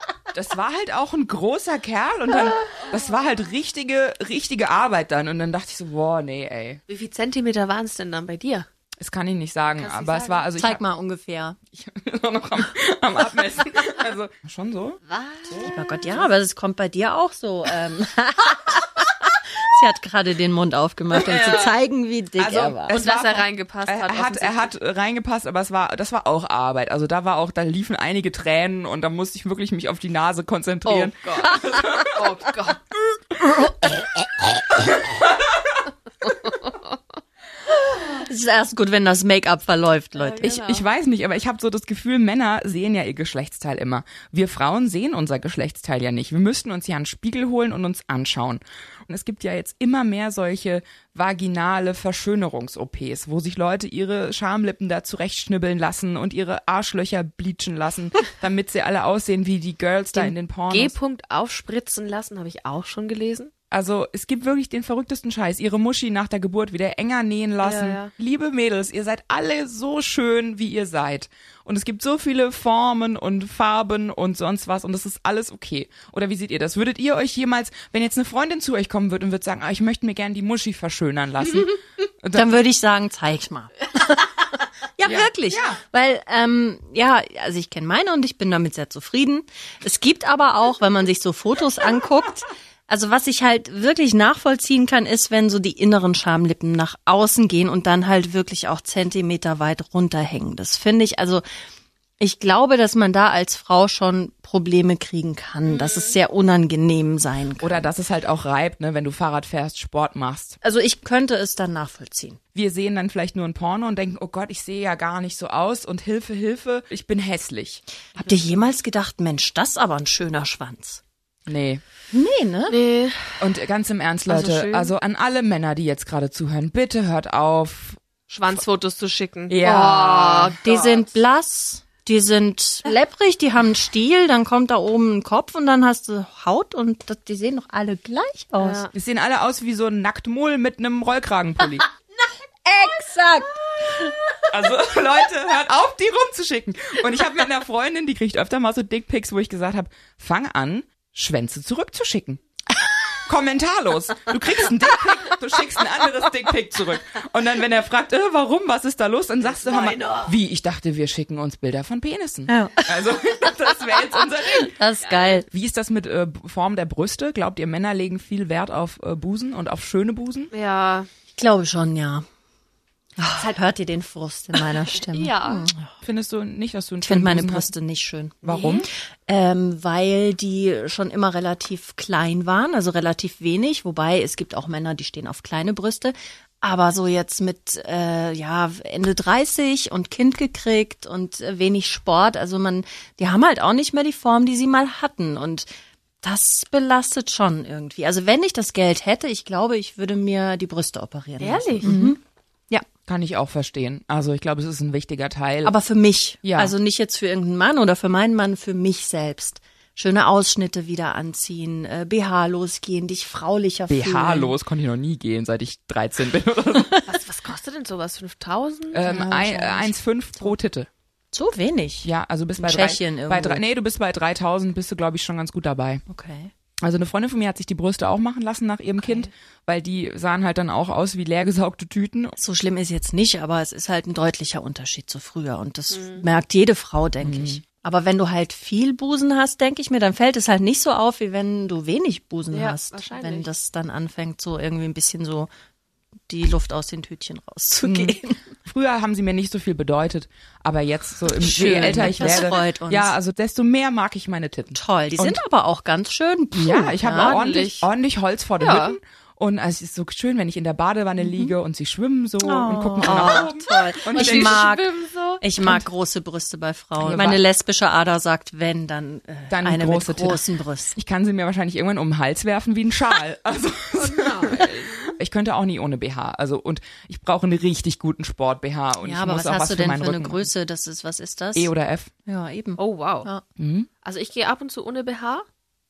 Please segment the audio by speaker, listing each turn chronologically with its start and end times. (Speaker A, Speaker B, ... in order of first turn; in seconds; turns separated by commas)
Speaker A: 0.3-6.8, Speaker B: 6.9-8.7, Speaker A: 9.0-10.8, Speaker B: 9.8-10.5, Speaker C: 10.6-11.6, Speaker A: 11.8-15.0, Speaker B: 15.1-15.7, Speaker C: 15.6-22.9, Speaker B: 21.2-21.7, Speaker A: 22.4-32.2, Speaker B: 22.9-24.7, Speaker B: 30.9-32.8, Speaker B: 36.2-36.7, Speaker C: 37.9-40.6, Speaker B: 40.2-40.9, Speaker A: 40.5-61.0, Speaker B: 60.1-63.5, Speaker A: 63.7-82.6, Speaker B: 67.6-68.1, Speaker C: 82.3-101.4, Speaker A: 85.0-85.8, Speaker C: 102.2-107.9, Speaker B: 105.7-106.2, Speaker A: 107.6-110.6, Speaker C: 110.6-112.4, Speaker A: 112.5-117.8, Speaker C: 118.2-121.0, Speaker A: 121.5-121.8, Speaker C: 122.1-122.8, Speaker B: 122.7-123.5, Speaker A: 123.4-128.0, Speaker B: 124.3-124.9, Speaker B: 128.3-131.1, Speaker A: 129.5-130.6, Speaker C: 130.6-138.9, Speaker B: 138.6-138.9, Speaker A: 138.9-141.9, Speaker C: 142.7-144.1, Speaker A: 144.5-152.4, Speaker A: 153.2-164.8, Speaker B: 159.6-160.2, Speaker C: 162.5-163.1, Speaker C: 164.2-165.5, Speaker A: 165.5-170.5, Speaker B: 170.5-171.1, Speaker C: 171.3-172.2, Speaker C: 173.2-175.9, Speaker B: 175.0-175.7, Speaker A: 176.0-177.7, Speaker C: 177.0-178.4, Speaker A: 178.4-178.9, Speaker B: 178.4-178.9, Speaker C: 179.3-195.7, Speaker C: 196.2-202.8, Speaker B: 201.4-201.9, Speaker A: 201.8-202.2, Speaker A: 203.1-205.8, Speaker C: 205.6-214.6, Speaker A: 206.4-206.7, Speaker A: 213.9-217.0, Speaker B: 217.1-219.1, Speaker A: 218.9-220.9, Speaker C: 219.0-220.5, Speaker C: 221.3-223.6, Speaker A: 222.0-226.0, Speaker C: 226.1-226.5, Speaker A: 226.8-232.4, Speaker C: 232.4-245.5, Speaker B: 235.9-236.3, Speaker A: 237.2-237.6, Speaker B: 242.5-243.5, Speaker C: 246.3-248.4, Speaker A: 247.8-255.4, Speaker C: 251.4-253.2, Speaker C: 254.8-257.4, Speaker A: 256.5-264.7, Speaker B: 257.2-257.9, Speaker B: 258.6-259.0, Speaker C: 261.2-261.5, Speaker C: 262.4-271.0, Speaker B: 263.0-265.4, Speaker A: 267.0-267.4, Speaker A: 269.5-280.5, Speaker B: 273.9-275.1, Speaker C: 279.0-281.7, Speaker A: 281.6-282.1, Speaker C: 282.3-283.4, Speaker B: 282.8-283.3, Speaker A: 283.6-283.9, Speaker B: 284.0-285.5